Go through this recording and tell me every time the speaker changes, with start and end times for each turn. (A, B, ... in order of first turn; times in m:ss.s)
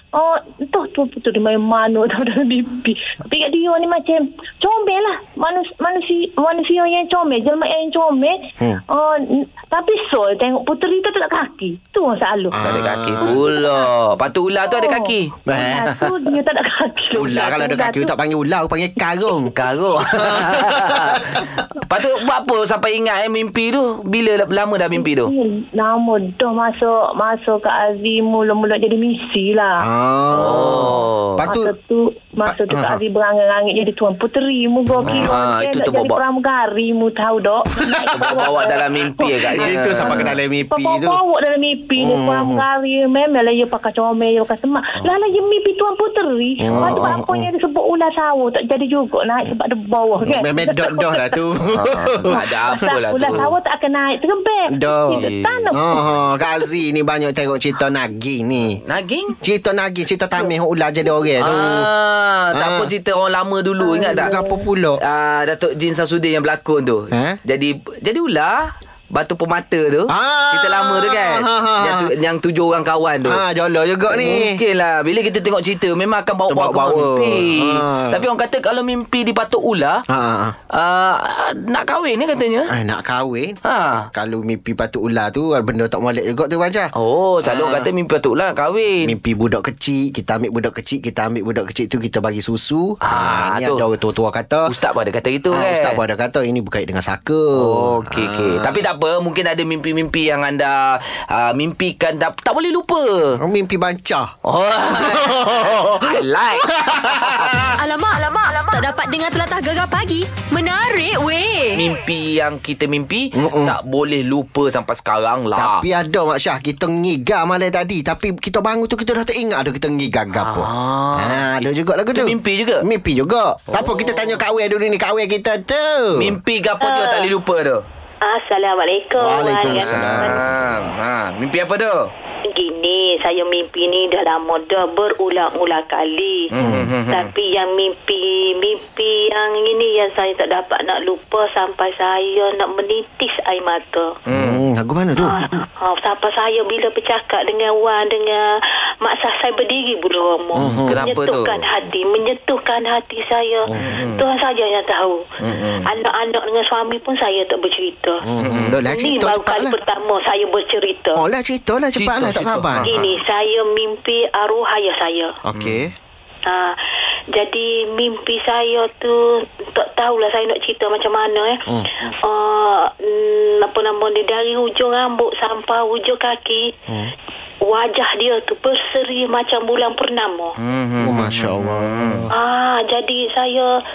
0:00.1-0:08.4 A
0:08.9-0:12.7 A
0:12.5-0:13.4 B
0:12.6-0:16.1 C
0:13.2-0:13.8 A
0:14.6-0:18.1 A
0:15.5-0:15.9 B
0:17.1-0:19.6 B
0:19.4-0:25.3 C
0:20.2-0:21.4 B
0:24.9-0:29.8 A
0:29.8-0:31.7 B
0:30.3-0:31.4 C
0:30.5-0:51.3 A
0:32.4-0:33.0 B
0:34.9-0:35.3 B
0:35.0-0:36.2 C
0:38.0-0:41.2 B
0:38.1-0:40.4 C
0:42.0-0:42.6 B
0:45.0-0:45.2 B
0:46.6-0:47.5 B
0:46.7-0:47.1 C
0:50.2-0:53.4 B
0:51.7-0:53.5 C
0:52.2-0:56.0 A
0:54.7-0:58.8 B
0:55.1-0:56.2 C
0:58.8-0:59.4 C
0:59.4-1:01.9 B
1:00.4-1:01.3 A
1:01.4-1:04.3 C
1:02.5-1:02.9 B
1:03.8-1:04.6 A
1:04.1-1:05.0 B
1:05.0-1:13.4 C
1:07.1-1:07.4 B
1:10.1-1:12.1 B
1:13.2-1:14.6 B
1:14.1-1:20.0 C
1:16.5-1:18.2 B
1:20.1-1:20.6 B
1:20.7-1:22.7 C
1:22.7-1:23.6 B
1:23.6-1:24.1 C
1:24.1-1:26.9 B
1:27.0-1:29.1 C
1:27.4-1:27.9 B
1:29.0-1:34.7 B
1:33.0-1:33.8 C
1:34.7-1:36.0 C
1:35.5-1:38.8 B
1:37.6-1:43.4 C
1:43.4-1:44.3 B
1:44.4-1:47.7 C
1:44.9-1:47.5 B
1:47.8-1:51.8 D
1:51.8-1:55.8 C
1:53.4-1:53.8 B
1:55.5-2:06.3 B
2:00.4-2:01.4 C
2:02.1-2:02.8 C
2:03.7-2:04.4 C
2:06.1-2:07.8 C
2:06.8-2:07.3 E
2:08.2-2:10.4 E
2:09.2-2:10.6 B
2:09.6-2:12.1 C
2:12.5-2:16.5 E
2:16.5-2:17.3 C
2:16.6-2:16.9 B
2:17.1-2:24.1 E
2:24.3-2:24.6 C
2:24.3-2:25.4 B
2:25.2-2:28.4 E
2:29.0-2:35.2 E
2:30.5-2:31.0 B
2:30.6-2:31.6 C
2:33.7-2:34.0 B
2:33.8-2:34.3 C
2:35.4-2:35.9 C
2:35.8-2:38.2 E
2:38.3-2:39.8 B
2:38.4-2:38.8 C
2:38.9-2:41.2 E
2:41.1-2:42.9 B
2:41.9-2:43.2 C
2:42.8-2:45.3 E
2:45.4-2:45.9 B
2:46.4-2:46.7 E
2:47.3-2:49.2 E
2:49.7-2:51.6 E
2:52.2-2:56.7 E
2:57.6-3:00.5 E
3:00.6-3:02.3 C
3:01.0-3:02.3 B
3:02.3-3:03.7 E